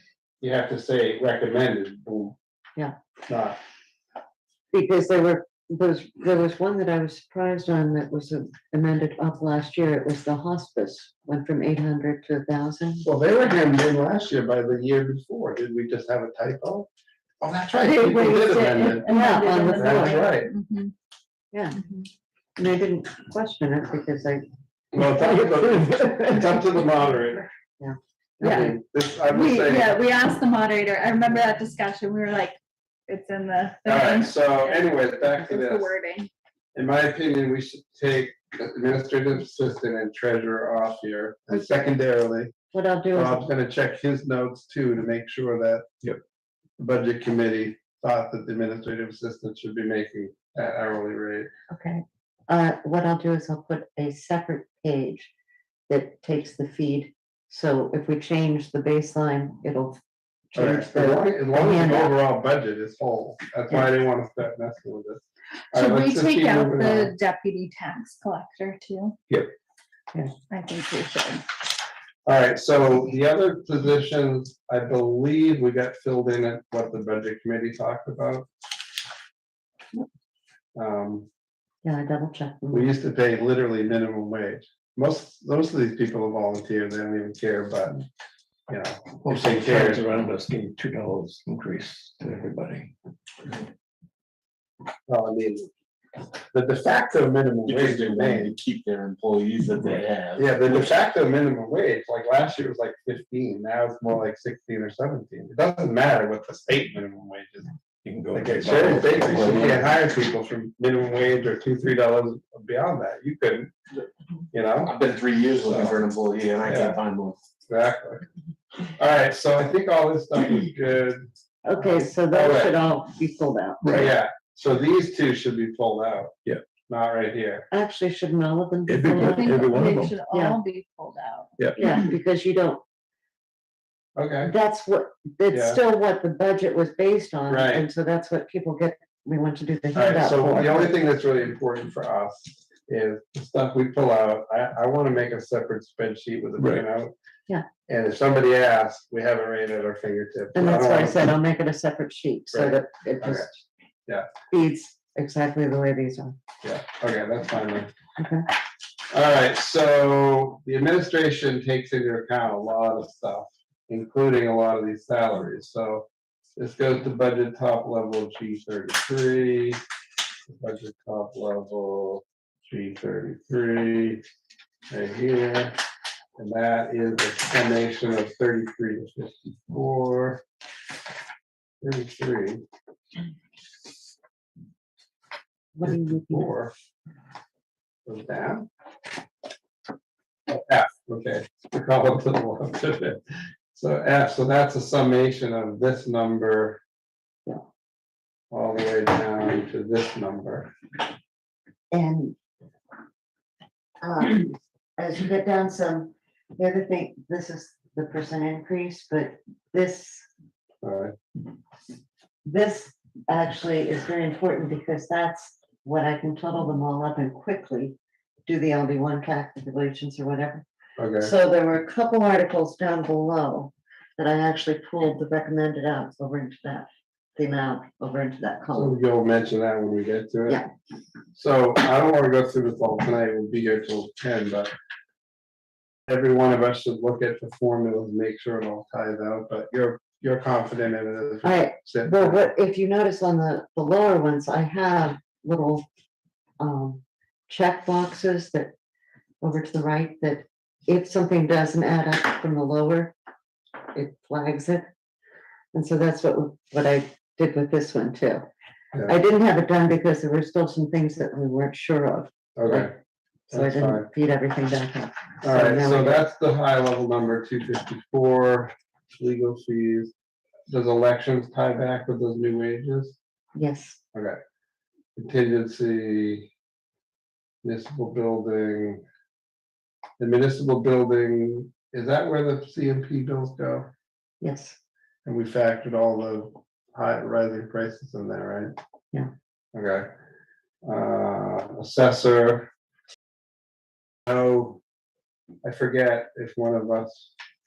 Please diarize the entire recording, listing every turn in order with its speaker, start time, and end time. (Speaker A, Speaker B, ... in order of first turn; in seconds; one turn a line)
Speaker A: 0.4-2.4
Speaker A: 3.3-3.6
Speaker B: 4.7-13.1
Speaker A: 13.0-16.9
Speaker A: 17.4-20.5
Speaker B: 17.8-20.3
Speaker C: 18.0-20.9
Speaker B: 21.5-21.8
Speaker C: 21.7-22.1
Speaker B: 22.6-26.6
Speaker A: 24.9-27.5
Speaker B: 27.8-28.8
Speaker A: 28.4-29.9
Speaker C: 28.4-28.7
Speaker C: 29.3-32.6
Speaker C: 33.1-36.3
Speaker A: 33.8-35.9
Speaker A: 36.7-42.5
Speaker B: 42.7-43.4
Speaker A: 43.1-45.9
Speaker A: 46.8-51.5
Speaker B: 51.7-55.3
Speaker B: 55.9-62.1
Speaker A: 60.5-67.1
Speaker C: 65.7-69.2
Speaker C: 70.5-71.5
Speaker A: 72.2-78.5
Speaker A: 80.8-81.3
Speaker B: 81.8-82.9
Speaker A: 82.7-88.0
Speaker A: 88.7-90.0
Speaker D: 89.2-92.9
Speaker A: 95.1-95.7
Speaker A: 96.5-98.5
Speaker E: 97.7-100.9
Speaker A: 100.4-107.7
Speaker D: 108.0-109.9
Speaker A: 108.3-113.7
Speaker A: 114.5-115.0
Speaker E: 114.8-117.4
Speaker A: 115.7-116.0
Speaker A: 116.6-117.0
Speaker A: 117.7-118.2
Speaker A: 118.9-122.8
Speaker B: 121.6-124.0
Speaker A: 123.9-126.3
Speaker A: 126.9-127.7
Speaker B: 127.7-130.6
Speaker D: 128.9-130.1
Speaker C: 129.1-131.9
Speaker B: 131.8-132.8
Speaker A: 134.2-134.5
Speaker B: 134.5-140.9
Speaker A: 135.5-135.8
Speaker A: 137.5-137.8
Speaker A: 139.9-147.1
Speaker D: 146.6-146.8
Speaker A: 147.9-151.2
Speaker B: 150.5-153.6
Speaker A: 152.5-153.5
Speaker B: 154.5-156.3
Speaker A: 156.6-157.9
Speaker B: 158.2-158.5
Speaker A: 159.1-166.1
Speaker A: 166.6-169.8
Speaker A: 170.5-174.2
Speaker A: 174.9-175.8
Speaker A: 176.4-180.4
Speaker A: 181.8-182.6
Speaker B: 185.8-186.5
Speaker A: 185.8-186.7
Speaker A: 188.1-188.7
Speaker A: 190.5-193.2
Speaker A: 193.7-196.8
Speaker A: 198.5-200.7
Speaker B: 201.9-202.3
Speaker B: 204.0-210.3
Speaker A: 210.8-211.1
Speaker B: 212.4-217.9
Speaker B: 218.5-220.6
Speaker A: 221.0-221.3
Speaker B: 221.2-229.0
Speaker A: 228.7-230.6
Speaker A: 231.3-234.7
Speaker A: 236.1-242.5
Speaker B: 241.4-245.8
Speaker B: 246.6-248.7
Speaker B: 249.4-253.1
Speaker B: 253.9-254.9
Speaker B: 255.7-258.4
Speaker B: 259.1-262.9
Speaker A: 262.6-262.9
Speaker A: 263.5-264.1
Speaker B: 263.5-266.3
Speaker A: 265.4-270.1
Speaker A: 270.7-273.1
Speaker B: 273.5-274.0
Speaker A: 274.1-274.4
Speaker A: 275.1-276.5
Speaker A: 277.6-279.0
Speaker A: 280.2-283.9
Speaker B: 284.4-284.8
Speaker A: 285.2-288.7
Speaker A: 289.7-290.1
Speaker A: 290.8-292.7
Speaker A: 294.2-294.8
Speaker A: 295.6-297.3